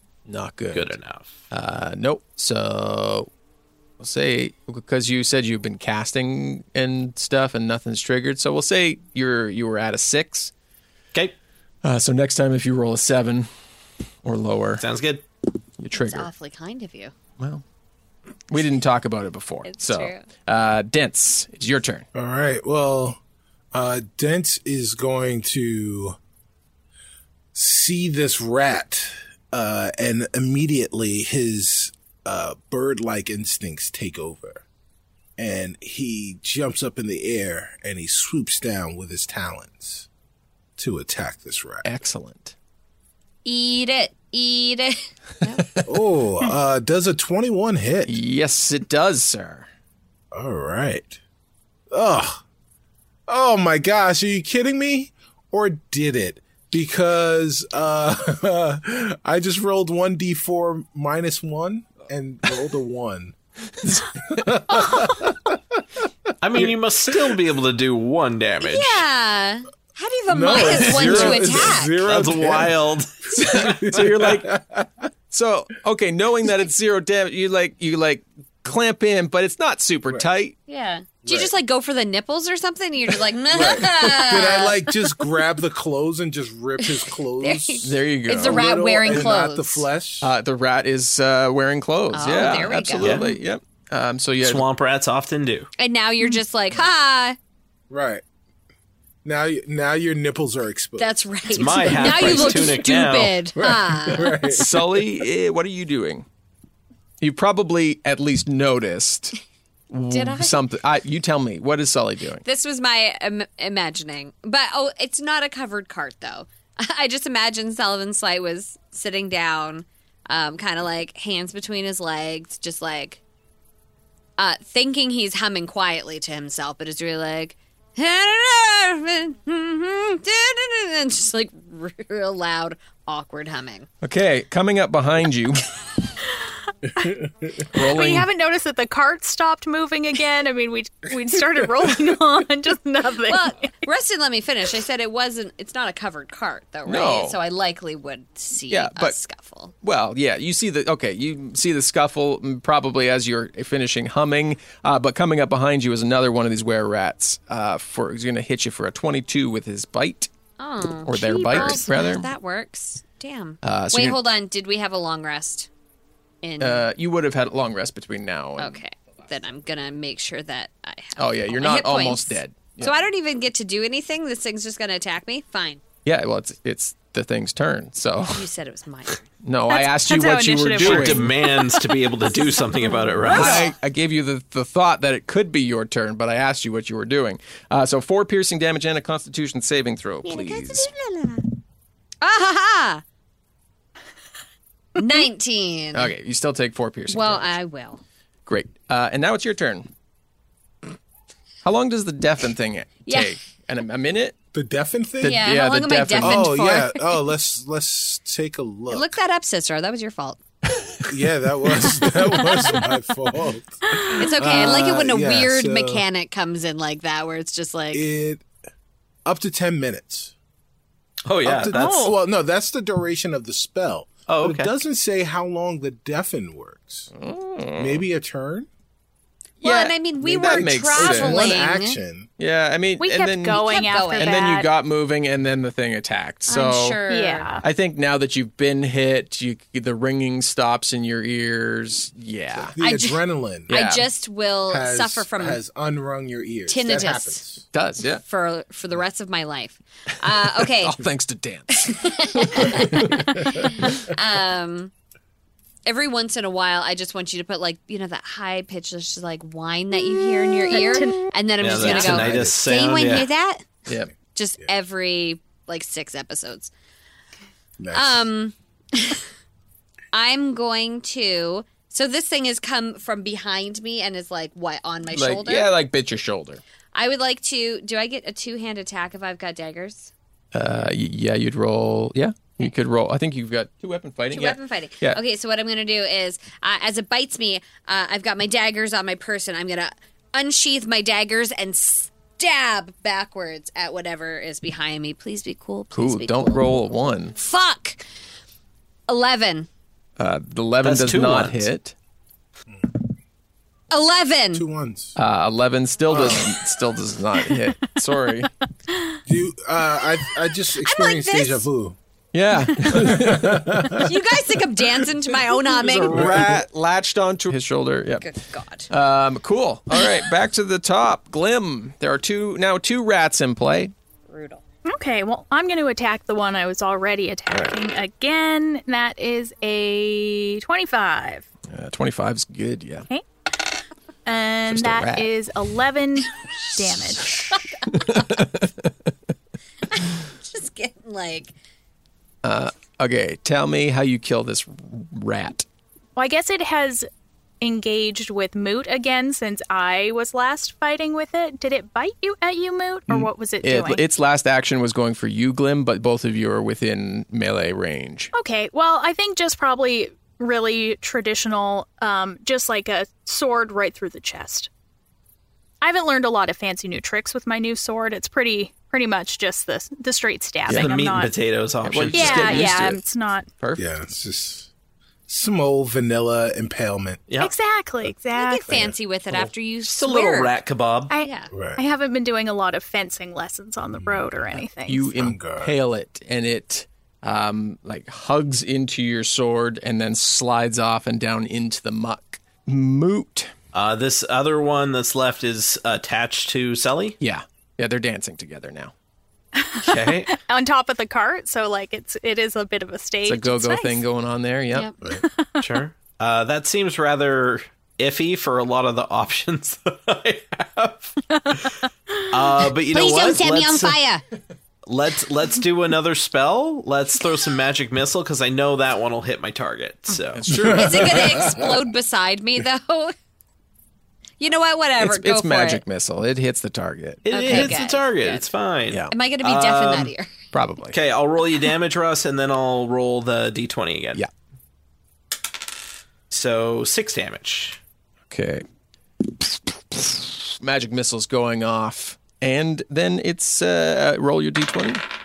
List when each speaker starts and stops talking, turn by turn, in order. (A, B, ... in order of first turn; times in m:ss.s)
0:00.3-0:01.0 A
0:00.7-0:01.4 B
0:01.5-0:03.3 A
0:04.0-0:10.5 A
0:11.8-0:13.5 A
0:14.2-0:14.8 A
0:14.8-0:15.2 B
0:15.8-0:16.3 A
0:15.9-0:17.1 C
0:18.5-0:22.0 A
0:19.6-0:20.2 C
0:22.1-0:23.2 D
0:23.7-0:26.2 D
0:27.5-0:34.6 D
0:35.4-0:40.1 D
0:40.8-0:41.9 D
0:41.8-0:42.5 A
0:43.4-0:45.8 C
0:45.8-0:48.2 D
0:48.0-0:49.7 A
0:50.3-0:51.2 D
0:51.9-0:52.4 D
0:53.3-1:03.3 D
1:03.8-1:04.5 A
1:04.3-1:05.8 D
1:06.4-1:09.0 B
1:08.6-1:12.0 C
1:10.3-1:15.1 D
1:10.7-1:14.0 B
1:13.4-1:14.6 A
1:15.3-1:20.6 A
1:20.7-1:24.9 C
1:21.2-1:21.5 D
1:23.5-1:30.3 D
1:26.8-1:29.9 C
1:27.8-1:29.2 A
1:30.2-1:34.6 A
1:32.1-1:33.4 C
1:33.0-1:33.3 B
1:34.4-1:35.7 B
1:35.8-1:37.4 C
1:37.9-1:38.2 D
1:39.2-1:41.1 D
1:41.0-1:44.6 C
1:41.5-1:43.4 B
1:41.8-1:42.6 D
1:43.6-1:45.0 D
1:44.5-1:46.2 A
1:47.2-1:49.3 A
1:49.9-1:52.4 A
1:50.1-1:50.6 C
1:52.4-2:03.2 C
2:04.4-2:13.9 C
2:14.0-2:15.6 A
2:17.7-2:18.3 A
2:17.7-2:23.7 E
2:23.3-2:29.7 C
2:26.8-2:27.4 A
2:28.7-2:29.2 A
2:29.8-2:40.3 A
2:40.6-2:45.7 C
2:41.0-2:42.3 A
2:43.6-2:44.2 A
2:46.4-2:46.8 C
2:46.6-2:48.8 A
2:48.6-2:55.8 C
2:51.2-2:52.9 A
2:56.0-2:58.5 A
2:58.3-2:59.2 C
2:59.4-3:01.3 A
2:59.7-3:01.4 E
3:00.8-3:03.7 B
3:02.9-3:03.6 C
3:03.3-3:10.9 A
3:03.3-3:03.7 E
3:10.2-3:11.5 C
3:12.2-3:13.0 C
3:15.0-3:16.1 C
3:15.9-3:17.5 A
3:17.1-3:18.0 C
3:18.5-3:19.9 A
3:21.6-3:24.4 A
3:23.1-3:23.3 C
3:24.5-3:25.5 D
3:25.2-3:26.6 A
3:25.2-3:27.2 C
3:26.2-3:29.1 D
3:28.9-3:30.4 C
3:31.1-3:33.8 D
3:31.8-3:32.8 C
3:33.9-3:34.2 E
3:34.2-3:38.0 C
3:34.3-3:36.0 D
3:37.9-3:38.4 D
3:39.2-3:40.3 D
3:41.2-3:42.1 B
3:41.4-3:47.1 D
3:41.6-3:42.2 E
3:44.3-3:44.7 B
3:47.1-3:48.0 A
3:47.8-3:48.7 D
3:49.6-3:52.0 C
3:49.6-3:51.6 A
3:50.4-3:52.3 D
3:52.4-3:57.0 A
3:53.0-3:54.7 E
3:53.6-3:54.6 C
3:56.5-3:57.5 C
3:57.0-3:57.6 E
3:57.6-4:02.8 A
4:02.5-4:03.7 D
4:02.8-4:05.6 C
4:03.7-4:04.1 A
4:04.7-4:07.6 D
4:06.7-4:07.4 C
4:07.7-4:08.2 A
4:08.2-4:11.0 C
4:10.6-4:12.0 A
4:11.8-4:14.9 C
4:12.5-4:13.6 A
4:15.8-4:23.7 C
4:20.7-4:21.3 E
4:21.6-4:23.3 B
4:22.2-4:22.6 D
4:24.3-4:26.7 C
4:27.8-4:28.3 D
4:27.9-4:29.2 C
4:30.1-4:35.7 C
4:35.1-4:36.6 A
4:36.9-4:40.1 C
4:40.5-4:45.2 A
4:44.3-4:58.0 C
4:55.9-4:57.3 A
4:59.1-4:59.7 C
5:00.2-5:01.9 A
5:00.8-5:01.7 B
5:02.7-5:03.0 D
5:03.9-5:04.6 C
5:04.5-5:05.2 D
5:05.2-5:08.5 A
5:06.1-5:06.6 D
5:09.2-5:12.0 D
5:10.8-5:11.6 C
5:12.3-5:14.0 A
5:12.9-5:14.0 D
5:13.9-5:16.5 C
5:15.6-5:18.3 A
5:16.1-5:16.5 D
5:18.2-5:18.9 C
5:18.9-5:23.9 A
5:24.3-5:24.6 C
5:24.9-5:31.4 E
5:31.7-5:33.1 A
5:34.2-5:37.3 E
5:34.7-5:35.3 A
5:37.3-5:38.4 C
5:37.9-5:38.9 A
5:39.9-5:41.5 C
5:42.4-5:45.6 A
5:46.2-5:47.1 E
5:47.6-5:54.0 E
5:53.1-5:58.3 A
5:58.3-6:04.7 E
6:05.8-6:11.3 E
6:10.6-6:12.8 B
6:10.7-6:11.0 A
6:11.8-6:13.0 A
6:12.1-6:13.5 E
6:13.6-6:13.8 A
6:13.8-6:14.7 D
6:15.3-6:17.2 D
6:17.4-6:18.9 E
6:18.3-6:20.6 C
6:18.7-6:18.9 D
6:19.3-6:21.1 B
6:21.1-6:25.1 E
6:21.2-6:21.5 C
6:21.5-6:21.8 D
6:24.0-6:24.5 D
6:24.8-6:33.5 A
6:25.1-6:25.7 D
6:33.7-6:37.2 B
6:37.2-6:38.9 A
6:39.6-6:44.0 E
6:39.8-6:40.3 B
6:43.2-6:44.9 A
6:45.2-6:45.6 E
6:45.6-6:51.6 B
6:52.3-6:54.0 B
6:52.9-6:54.2 C
6:54.8-7:00.4 B
7:00.3-7:01.4 A
7:00.6-7:03.1 C
7:04.4-7:05.8 C
7:05.0-7:07.8 A
7:07.2-7:10.1 B
7:07.3-7:08.5 C
7:09.1-7:10.3 C
7:10.5-7:11.0 A
7:10.9-7:14.2 B
7:16.3-7:17.8 B
7:18.3-7:18.6 A
7:19.3-7:25.0 A